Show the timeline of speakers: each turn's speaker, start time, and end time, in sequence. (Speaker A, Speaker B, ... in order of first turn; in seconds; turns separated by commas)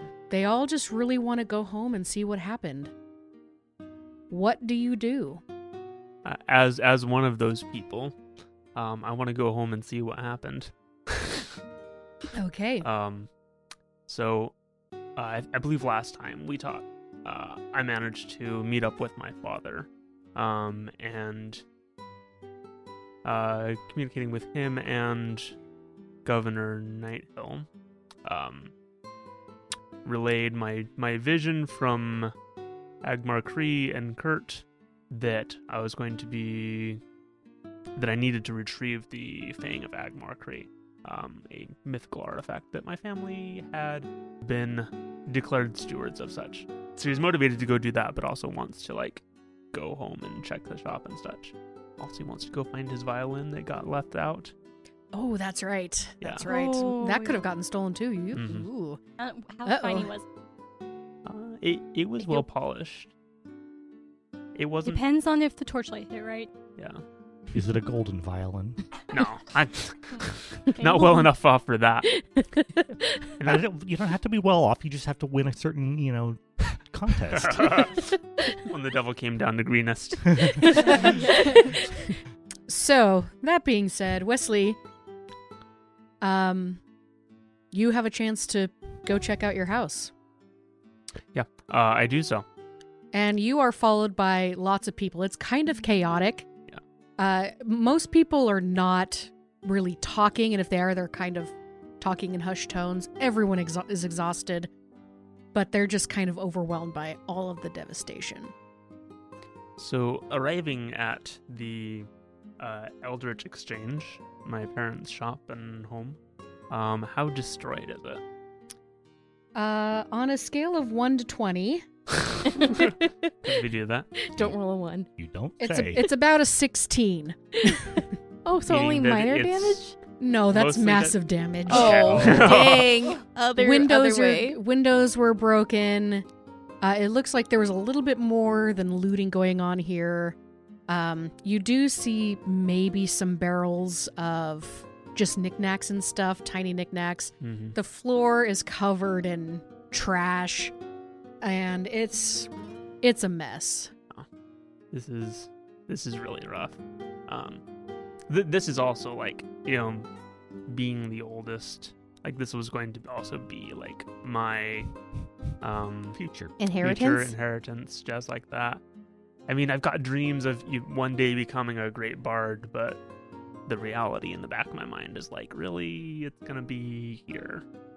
Speaker A: 0.3-2.9, Speaker A: 4.3-5.4, Speaker B: 6.2-8.2, Speaker B: 8.8-11.5, Speaker A: 12.3-12.9, Speaker B: 12.8-13.3, Speaker B: 14.1-14.5, Speaker B: 15.2-21.6, Speaker B: 23.2-25.6, Speaker B: 26.2-27.7, Speaker B: 28.2-28.7, Speaker B: 30.1-32.3, Speaker B: 33.0-37.0, Speaker B: 38.0-54.5, Speaker A: 55.1-59.0, Speaker C: 56.4-57.4, Speaker B: 58.3-58.7, Speaker C: 59.2-60.3, Speaker A: 59.6-60.1, Speaker B: 61.2-63.1, Speaker B: 64.5-65.0, Speaker C: 64.8-66.5, Speaker D: 67.5-68.8, Speaker B: 69.1-72.2, Speaker C: 70.8-71.1, Speaker D: 73.4-78.0, Speaker B: 77.3-81.1, Speaker A: 80.6-81.4, Speaker C: 80.8-81.8, Speaker A: 82.7-84.8, Speaker A: 86.2-86.8, Speaker A: 87.7-90.1, Speaker B: 91.3-92.5, Speaker A: 93.1-96.5, Speaker A: 97.2-104.7, Speaker A: 105.5-108.5, Speaker B: 109.8-112.1, Speaker B: 112.6-116.2, Speaker B: 116.7-118.2, Speaker A: 119.5-121.8, Speaker E: 122.5-123.3, Speaker B: 123.4-124.1, Speaker E: 124.2-125.1, Speaker D: 125.2-126.1, Speaker A: 125.6-127.9, Speaker E: 127.7-130.0, Speaker B: 128.7-129.8, Speaker A: 130.2-132.2, Speaker B: 130.5-132.9, Speaker E: 131.7-134.6, Speaker D: 132.0-132.7, Speaker A: 133.6-136.3, Speaker A: 136.8-140.4, Speaker A: 140.9-150.7, Speaker B: 147.4-147.8, Speaker A: 151.4-152.5, Speaker A: 153.0-153.9, Speaker B: 154.9-157.6, Speaker B: 158.3-160.1, Speaker B: 160.7-164.9, Speaker B: 165.6-166.2, Speaker D: 166.2-166.5, Speaker E: 166.6-167.3, Speaker B: 166.8-168.8, Speaker B: 169.5-173.0, Speaker B: 173.7-177.6